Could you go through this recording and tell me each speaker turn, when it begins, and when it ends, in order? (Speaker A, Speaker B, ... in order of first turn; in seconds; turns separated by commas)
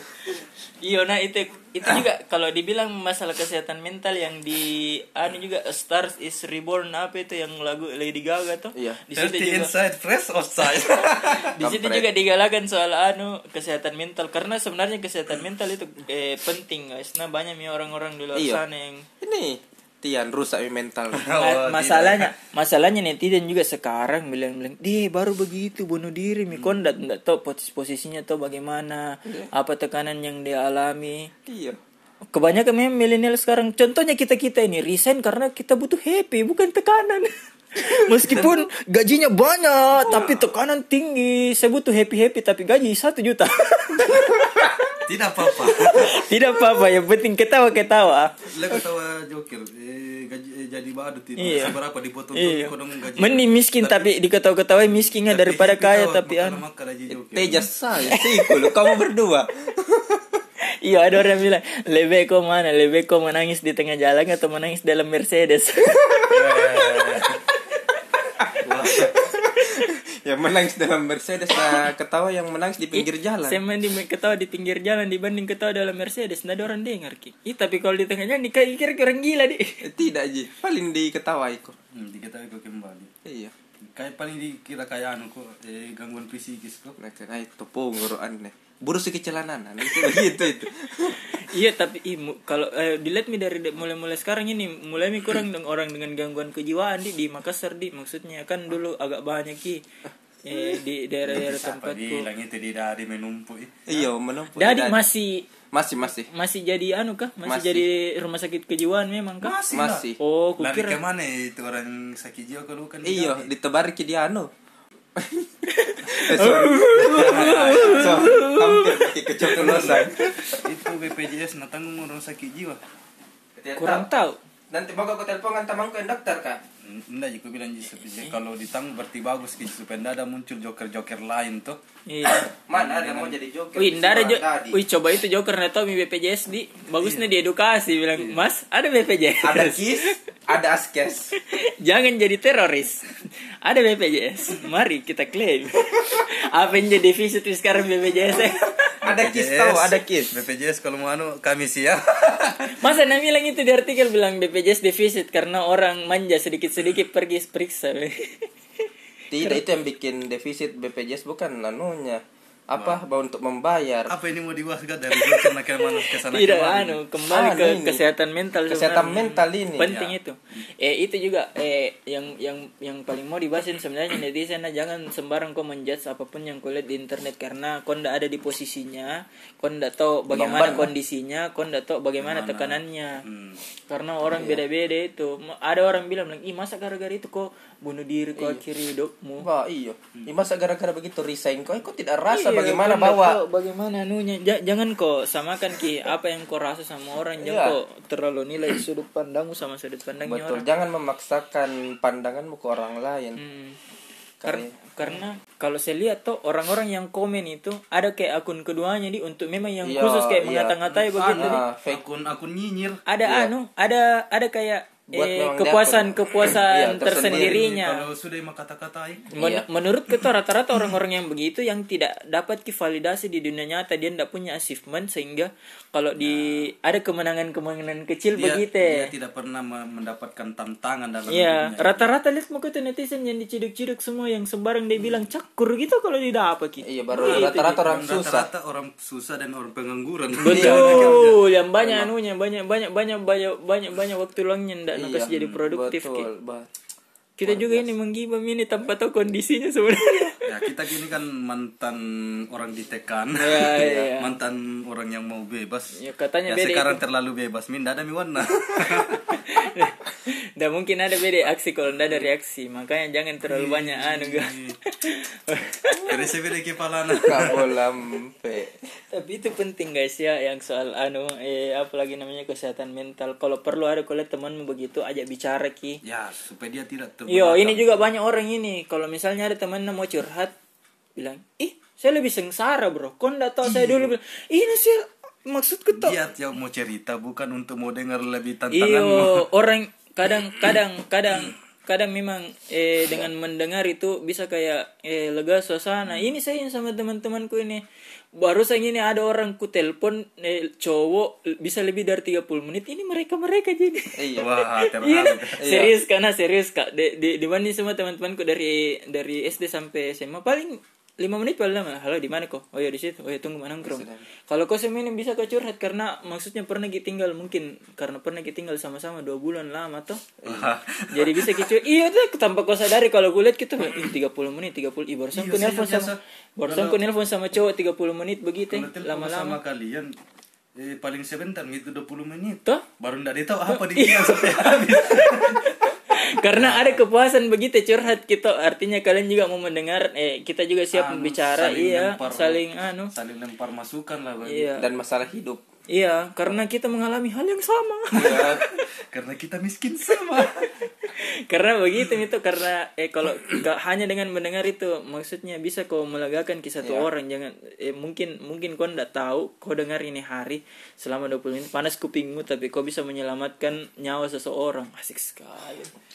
Speaker A: 0.3-9.7, Speaker B: 8.7-9.0, Speaker C: 9.1-11.5, Speaker A: 11.2-19.1, Speaker B: 11.2-12.1, Speaker B: 18.3-18.6, Speaker B: 19.2-21.2, Speaker C: 21.1-22.3, Speaker A: 21.4-31.3, Speaker C: 26.5-26.8, Speaker B: 31.4-31.8, Speaker A: 32.3-44.9, Speaker C: 38.3-38.5, Speaker C: 40.0-40.5, Speaker C: 45.0-46.2, Speaker A: 45.5-48.8, Speaker C: 48.5-54.1, Speaker A: 51.4-51.8, Speaker A: 52.3-56.6, Speaker C: 55.1-57.7, Speaker B: 57.1-60.2, Speaker A: 58.1-58.9, Speaker A: 60.8-67.0, Speaker C: 66.3-67.4, Speaker B: 68.4-73.6, Speaker C: 68.6-69.2, Speaker A: 72.9-79.7, Speaker B: 79.8-81.7, Speaker C: 81.9-83.1, Speaker B: 83.2-83.5, Speaker C: 83.9-87.0, Speaker B: 87.0-91.4, Speaker A: 91.1-99.8, Speaker A: 100.4-102.3, Speaker C: 101.3-104.0, Speaker B: 103.9-105.0, Speaker A: 104.5-105.5, Speaker B: 105.7-106.3, Speaker A: 106.0-109.6, Speaker B: 107.4-107.9, Speaker C: 109.4-113.5, Speaker B: 109.7-110.2, Speaker A: 110.2-111.0, Speaker B: 113.0-114.5, Speaker B: 115.2-115.5, Speaker A: 115.7-119.1, Speaker B: 116.1-120.6, Speaker C: 116.9-118.5, Speaker C: 119.4-122.8, Speaker B: 123.6-124.1, Speaker A: 123.8-124.4, Speaker B: 124.7-126.6, Speaker C: 126.8-131.8, Speaker A: 127.9-128.3, Speaker A: 132.1-132.5, Speaker B: 132.7-134.8, Speaker C: 132.7-133.4, Speaker A: 133.7-140.1, Speaker C: 137.0-137.3, Speaker C: 138.1-138.5, Speaker B: 139.4-141.3, Speaker A: 141.4-143.0, Speaker A: 143.6-148.9, Speaker B: 149.0-150.3, Speaker C: 149.0-152.8, Speaker A: 152.8-158.5, Speaker B: 159.3-164.1, Speaker C: 162.8-163.0, Speaker C: 164.1-167.0, Speaker A: 165.1-183.2, Speaker B: 167.3-168.0, Speaker B: 168.7-169.9, Speaker C: 169.8-170.2, Speaker B: 180.3-180.9, Speaker C: 182.2-183.6, Speaker A: 183.9-189.5, Speaker B: 184.3-184.6, Speaker B: 188.4-188.6, Speaker B: 189.4-193.4, Speaker A: 192.3-200.7, Speaker B: 197.4-197.8, Speaker B: 200.2-203.4, Speaker A: 203.4-203.8, Speaker B: 204.4-205.2, Speaker A: 204.4-211.6, Speaker B: 209.8-212.0, Speaker C: 210.8-213.0, Speaker A: 213.1-218.1, Speaker B: 213.2-213.5, Speaker B: 215.1-217.6, Speaker C: 217.0-219.3, Speaker B: 219.3-219.7, Speaker A: 219.3-229.1, Speaker C: 226.2-226.7, Speaker C: 228.3-232.1, Speaker A: 231.3-238.0, Speaker B: 236.8-238.5, Speaker C: 237.1-241.4, Speaker A: 240.4-246.3, Speaker B: 240.4-241.2, Speaker B: 241.8-242.1, Speaker B: 244.9-246.7, Speaker A: 247.4-250.8, Speaker B: 247.4-247.9, Speaker C: 250.4-259.4, Speaker A: 253.4-254.3, Speaker B: 253.8-254.1, Speaker A: 256.0-257.0, Speaker A: 259.1-266.3, Speaker C: 263.4-264.8, Speaker C: 266.0-267.7, Speaker B: 267.2-268.7, Speaker A: 269.1-276.0, Speaker C: 276.0-278.1, Speaker A: 277.3-280.5, Speaker A: 281.1-286.2, Speaker C: 283.6-284.1, Speaker C: 285.9-289.5, Speaker A: 288.7-297.8, Speaker A: 298.4-320.3, Speaker B: 304.1-304.5, Speaker C: 304.4-305.7, Speaker B: 305.6-305.9, Speaker B: 313.8-314.2, Speaker B: 320.4-320.7, Speaker C: 320.4-321.7, Speaker A: 321.1-329.6, Speaker C: 325.3-327.0, Speaker C: 328.7-330.1, Speaker C: 330.8-335.7, Speaker A: 333.7-343.1, Speaker C: 336.5-337.0, Speaker C: 340.9-344.8, Speaker A: 344.4-344.8, Speaker B: 344.8-345.6, Speaker A: 345.9-348.8, Speaker B: 348.1-348.6, Speaker C: 348.2-350.7, Speaker A: 351.0-365.9, Speaker B: 356.8-357.1